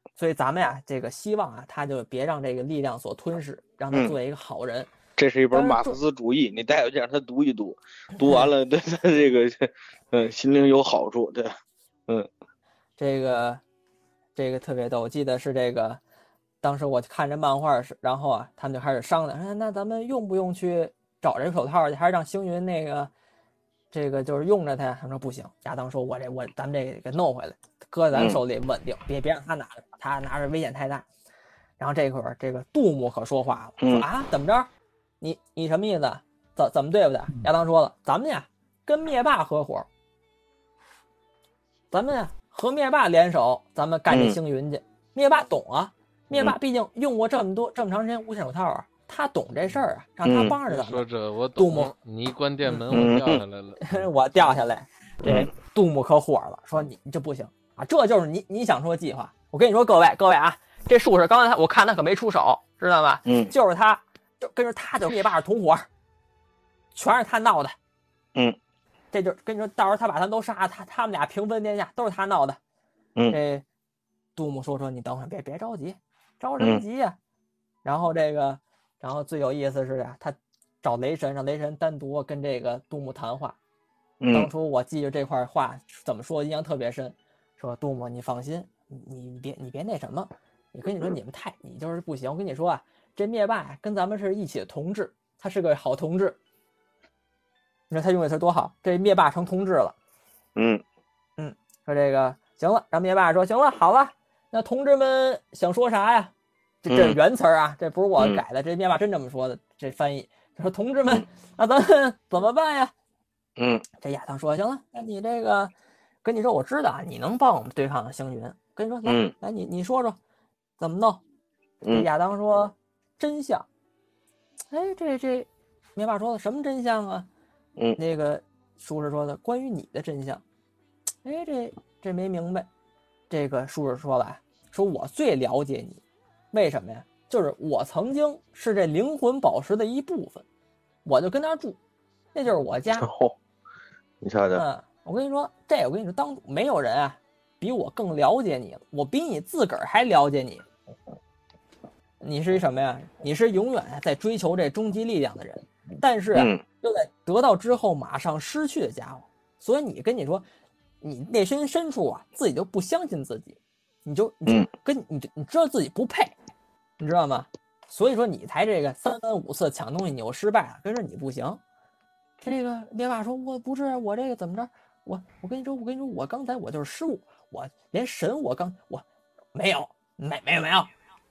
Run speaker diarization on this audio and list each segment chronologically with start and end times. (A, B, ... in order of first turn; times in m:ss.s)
0:00.2-0:04.9 A
0:05.2-0:11.5 B
0:05.5-0:06.0 A
0:13.0-0:13.6 A
0:14.4-0:16.0 A
0:16.6-0:23.1 A
0:23.9-0:31.0 A
0:28.1-0:28.4 B
0:31.8-0:34.7 A
0:33.8-0:34.0 B
0:35.2-0:39.9 A
0:41.9-0:51.9 A
0:44.1-0:44.4 B
0:50.2-0:50.6 B
0:50.7-0:54.0 C
0:52.7-0:53.0 A
0:52.9-0:53.4 B
0:53.8-1:05.9 A
0:55.2-0:55.5 B
1:03.2-1:03.5 B
1:06.9-1:07.8 A
1:09.1-1:12.6 A
1:13.3-1:13.6 A
1:14.4-1:17.2 A
1:17.8-1:23.6 A
1:24.2-1:24.5 B
1:24.3-1:36.4 A
1:37.9-1:40.0 A
1:40.6-1:40.8 B
1:41.4-1:46.3 A
1:46.8-1:52.9 A
1:46.9-1:47.2 B
1:53.6-1:53.8 B
1:54.0-1:55.7 A
1:56.2-2:00.2 A
1:59.0-1:59.3 B
2:00.8-2:01.2 A
2:01.9-2:03.7 A
2:04.7-2:07.3 A
2:08.0-2:10.4 A
2:11.2-2:12.7 A
2:13.3-2:16.0 A
2:16.5-2:20.4 A
2:21.0-2:21.8 A
2:22.3-2:23.1 A
2:23.0-2:23.3 B
2:24.2-2:24.6 B
2:24.5-2:30.6 A
2:32.2-2:40.4 A
2:36.3-2:36.6 B
2:41.0-2:46.3 A
2:47.0-2:51.6 A
2:52.4-3:00.9 A